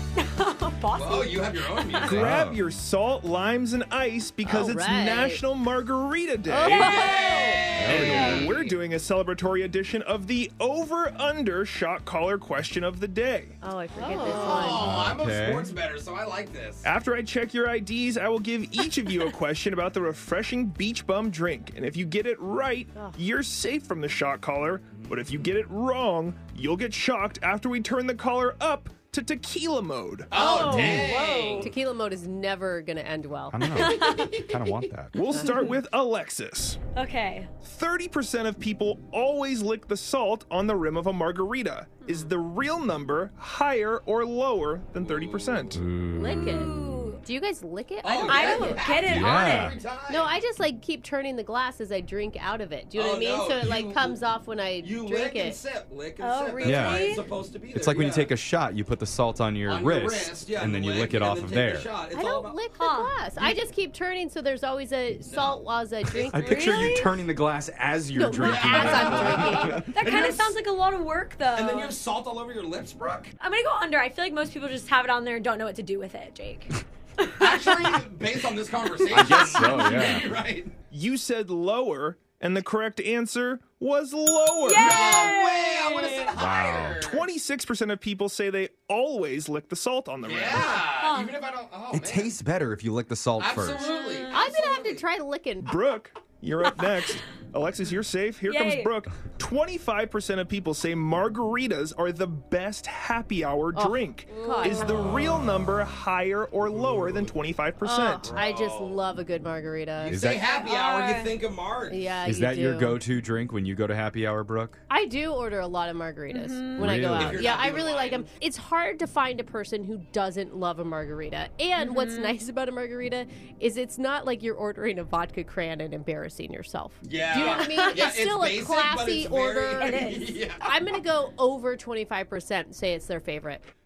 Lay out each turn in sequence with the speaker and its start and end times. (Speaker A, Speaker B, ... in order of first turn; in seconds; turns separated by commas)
Speaker A: 0.2-2.3, Speaker B: 0.9-2.2, Speaker C: 2.0-6.9, Speaker D: 2.0-2.6, Speaker E: 4.4-5.4, Speaker E: 6.5-7.7, Speaker A: 6.6-8.4, Speaker B: 6.8-8.8, Speaker D: 7.8-8.5, Speaker C: 7.8-13.6, Speaker E: 13.6-15.0, Speaker B: 14.0-16.9, Speaker A: 14.1-14.4, Speaker D: 14.7-15.7, Speaker C: 16.8-30.3, Speaker B: 30.3-31.7, Speaker A: 30.3-31.7, Speaker D: 30.6-31.1, Speaker E: 31.6-33.7, Speaker D: 33.5-35.1, Speaker A: 33.7-34.5, Speaker B: 33.8-34.4, Speaker C: 35.1-36.8, Speaker A: 36.9-37.5, Speaker C: 37.6-45.8, Speaker E: 42.0-42.3, Speaker B: 45.0-45.8, Speaker D: 45.7-46.7, Speaker E: 46.0-48.9, Speaker A: 46.3-47.2, Speaker B: 48.0-50.3, Speaker A: 48.2-49.8, Speaker D: 49.0-49.8, Speaker E: 50.1-55.6, Speaker B: 52.9-54.2, Speaker B: 54.8-58.3, Speaker A: 56.2-57.2, Speaker D: 56.6-57.1, Speaker D: 57.7-61.9, Speaker B: 59.6-62.6, Speaker E: 62.1-66.9, Speaker A: 62.7-63.1, Speaker B: 63.4-63.6, Speaker B: 65.2-66.5, Speaker D: 66.3-69.9, Speaker A: 66.4-67.1, Speaker E: 68.1-69.9, Speaker B: 68.3-70.6, Speaker A: 69.9-72.0, Speaker B: 71.5-73.3, Speaker A: 73.4-77.9, Speaker B: 77.3-80.7, Speaker D: 79.1-80.2, Speaker A: 79.2-79.8, Speaker C: 80.9-85.1, Speaker A: 84.6-86.3, Speaker B: 84.7-87.3, Speaker D: 86.3-87.0, Speaker C: 87.0-90.8, Speaker B: 90.2-92.4, Speaker A: 91.0-91.4, Speaker D: 91.9-93.9, Speaker B: 93.3-95.0, Speaker A: 93.7-94.5, Speaker E: 94.3-95.7, Speaker C: 95.6-108.4, Speaker A: 98.4-98.9, Speaker E: 103.7-105.0, Speaker A: 104.3-104.9, Speaker D: 105.0-105.5, Speaker B: 107.0-107.3, Speaker E: 107.8-110.2, Speaker B: 108.2-109.0, Speaker B: 110.0-112.2, Speaker D: 110.1-110.4, Speaker A: 110.5-111.4, Speaker E: 111.9-113.0, Speaker D: 112.2-114.8, Speaker E: 114.9-133.6, Speaker A: 116.3-117.1, Speaker D: 116.8-117.5, Speaker B: 117.1-118.3, Speaker A: 121.8-122.4, Speaker B: 127.0-130.7, Speaker A: 127.6-128.0, Speaker A: 129.8-130.3